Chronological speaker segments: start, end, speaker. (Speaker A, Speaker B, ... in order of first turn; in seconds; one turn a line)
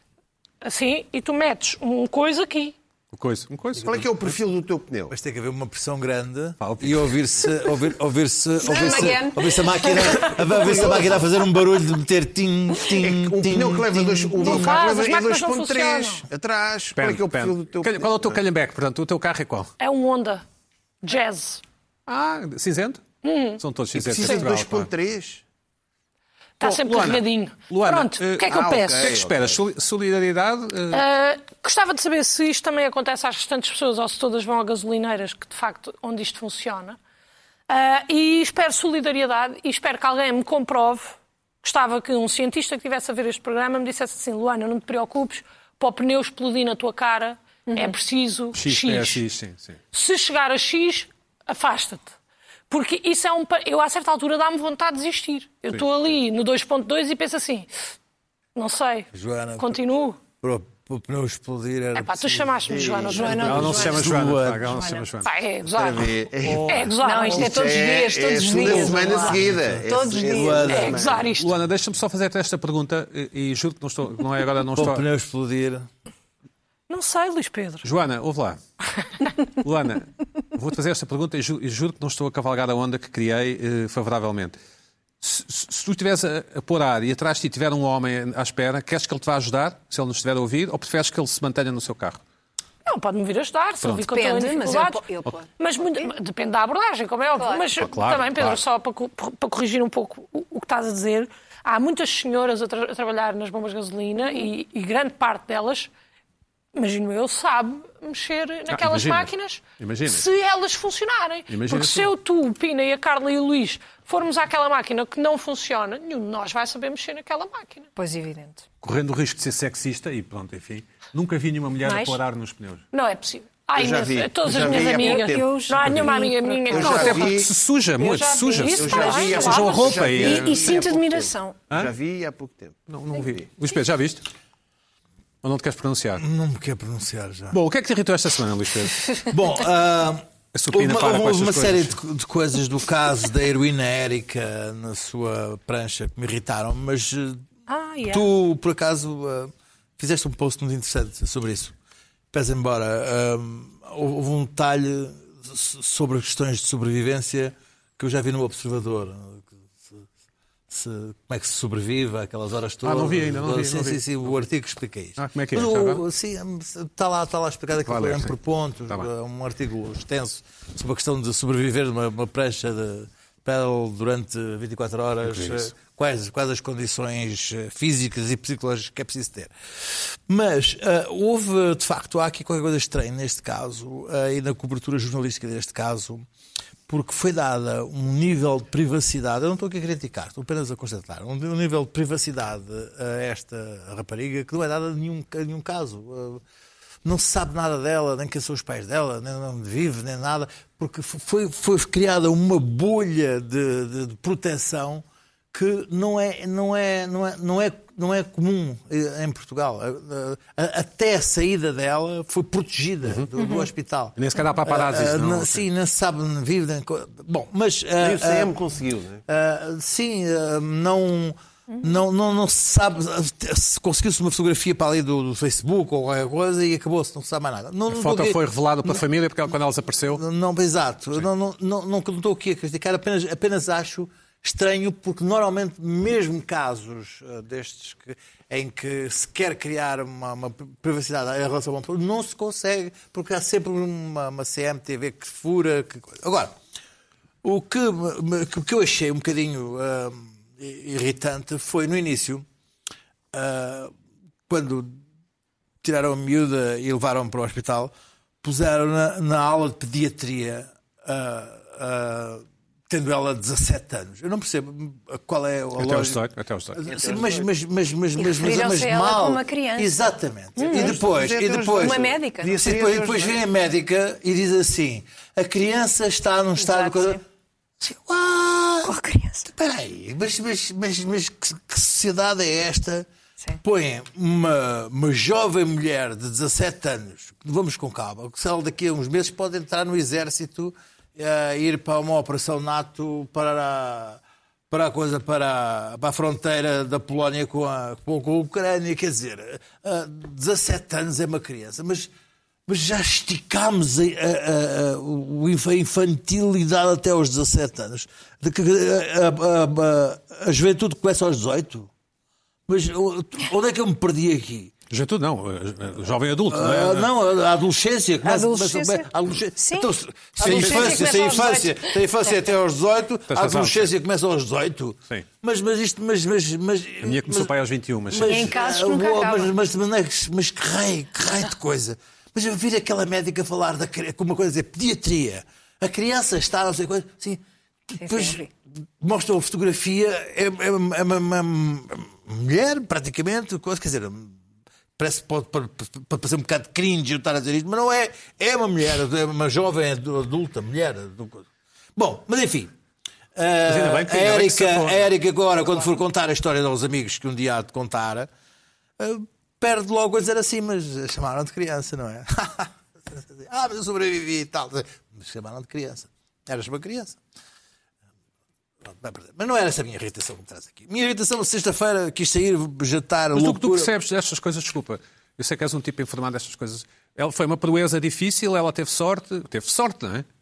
Speaker A: 0.6-2.8
Speaker B: 3.1-4.1
Speaker C: 3.8-5.2
Speaker D: 5.1-14.8
Speaker B: 6.6-7.2
Speaker E: 8.6-11.0
Speaker C: 12.9-18.4
Speaker A: 14.4-16.3
Speaker B: 16.9-19.7
Speaker A: 19.8-20.4
Speaker A: 21.0-21.6
Speaker B: 22.1-23.0
Speaker A: 23.2-23.6
Speaker B: 23.6-24.9
Speaker C: 23.9-25.4
Speaker A: 26.6-29.1
Speaker B: 26.6-31.0
Speaker C: 28.5-29.6
Speaker A: 30.9-37.0
Speaker A: 37.7-49.2
Speaker E: 47.7-48.0
Speaker B: 48.5-49.8
Speaker A: 49.9-52.1
Speaker A: 52.7-57.7
Speaker A: 58.5-60.2
Speaker D: 59.1-59.8
Speaker D: 60.4-64.8
Speaker A: 62.0-63.8
Speaker C: 62.7-63.8
Speaker E: 63.1-65.1
Speaker B: 63.4-65.3
Speaker A: 65.2-67.5
Speaker C: 65.7-71.3
Speaker B: 66.5-66.9
Speaker E: 67.0-71.0
Speaker B: 68.6-69.5
Speaker D: 70.2-71.0
Speaker A: 70.7-71.5
Speaker B: 71.3-75.0
Speaker D: 74.8-75.9
Speaker A: 76.9-77.8
Speaker B: 77.8-78.6
Speaker B: 79.6-84.6
Speaker B: 85.2-92.2
Speaker A: 92.8-95.0
Speaker B: 93.8-94.1
Speaker E: 94.0-96.1
Speaker A: 95.6-105.9
Speaker E: 97.4-97.7
Speaker B: 97.8-98.6
Speaker A: 106.7-117.9
Speaker B: 108.7-110.3
Speaker B: 111.5-112.1
Speaker E: 118.0-118.6
Speaker B: 118.8-122.8
Speaker E: 121.8-122.2
Speaker A: 122.9-127.3
Speaker C: 123.8-125.5
Speaker E: 124.5-127.4
Speaker B: 125.8-126.1
Speaker C: 126.7-127.5
Speaker B: 126.7-130.8
Speaker E: 128.0-131.6
Speaker A: 128.6-130.1
Speaker C: 128.8-132.8
Speaker B: 132.9-134.3
Speaker B: 135.4-136.2
Speaker D: 136.2-137.6
Speaker B: 137.5-139.1
Speaker D: 139.2-147.4
Speaker B: 140.5-142.0
Speaker A: 147.7-148.2
Speaker D: 148.1-151.8
Speaker D: 152.3-160.1
Speaker D: 160.7-186.3
Speaker B: 162.8-164.4
Speaker B: 165.2-166.0
Speaker B: 167.8-168.3
Speaker B: 175.2-175.7
Speaker D: 186.9-196.4
Speaker D: 197.0-218.5
Speaker E: 213.4-213.7
Speaker B: 214.2-215.7
Speaker C: 218.0-219.2
Speaker D: 219.3-229.0
Speaker B: 227.9-230.2
Speaker D: 230.1-246.6
Speaker D: 247.4-252.4
Speaker D: 253.3-253.9
Speaker D: 254.5-255.0
Speaker D: 255.8-266.2
Speaker B: 265.8-266.8
Speaker D: 266.8-277.2
Speaker C: 266.9-267.5
Speaker E: 268.2-270.0
Speaker E: 270.6-271.0
Speaker C: 270.6-273.4
Speaker E: 271.7-272.8
Speaker E: 276.6-277.2
Speaker D: 277.8-278.9
Speaker E: 278.8-279.5
Speaker D: 279.5-283.1
Speaker D: 283.6-302.1
Speaker D: 302.7-311.9
Speaker D: 312.7-314.7
Speaker B: 314.9-317.1
Speaker D: 316.5-327.5
Speaker E: 318.2-322.4
Speaker B: 320.4-321.0
Speaker B: 323.3-323.9
Speaker B: 327.0-328.5
Speaker D: 328.1-344.4
Speaker E: 328.2-329.5
Speaker E: 338.0-338.5
Speaker D: 345.0-352.7
Speaker D: 353.4-358.3
Speaker B: 353.6-355.1
Speaker D: 359.0-367.2
Speaker D: 368.9-373.9
Speaker B: 373.3-380.3